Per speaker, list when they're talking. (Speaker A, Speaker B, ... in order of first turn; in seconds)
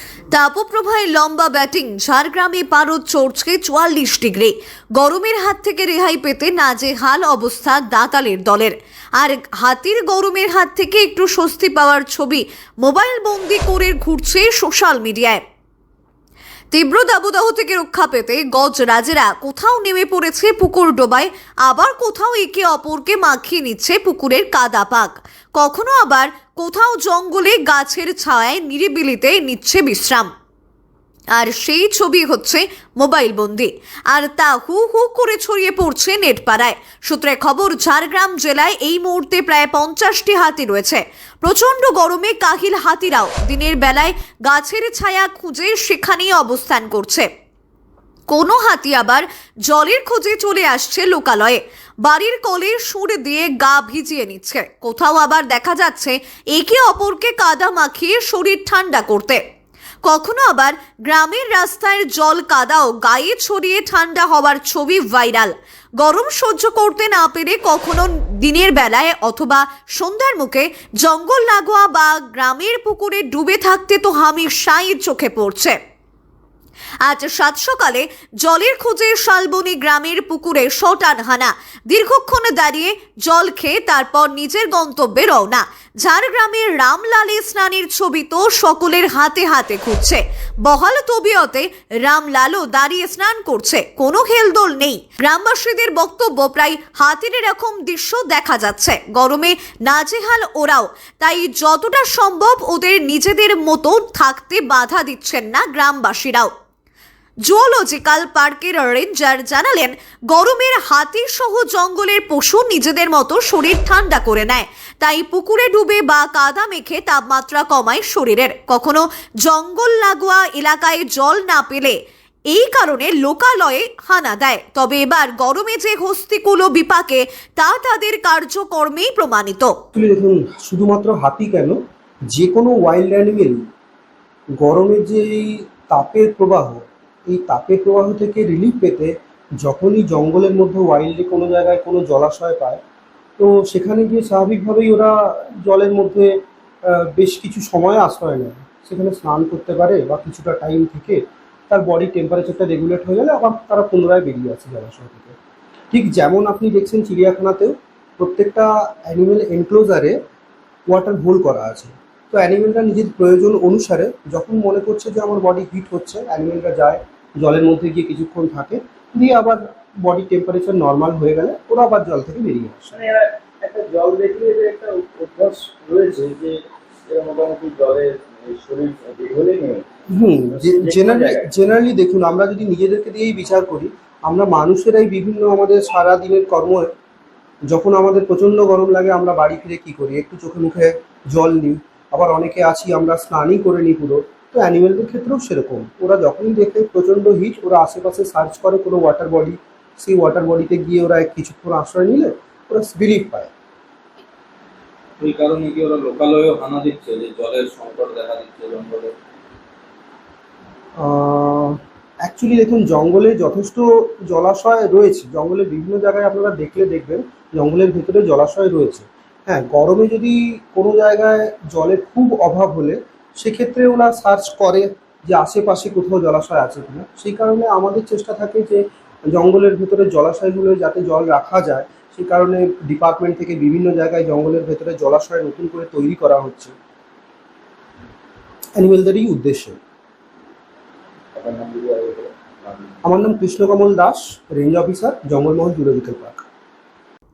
Speaker A: 0.3-15.4, 16.7-30.3, 31.3-47.3, 48.3-59.4, 60.0-75.8, 77.0-106.5, 107.5-122.0, 122.5-129.7
Speaker B: 129.9-131.8, 132.3-133.6, 134.6-142.8, 143.4-155.3, 155.9-160.2, 160.9-172.9, 180.1-186.9, 187.7-203.5, 211.0-236.7, 238.8-239.8, 243.0-246.4
Speaker C: 172.9-179.8, 180.5-181.5, 205.2-209.1, 241.3-242.9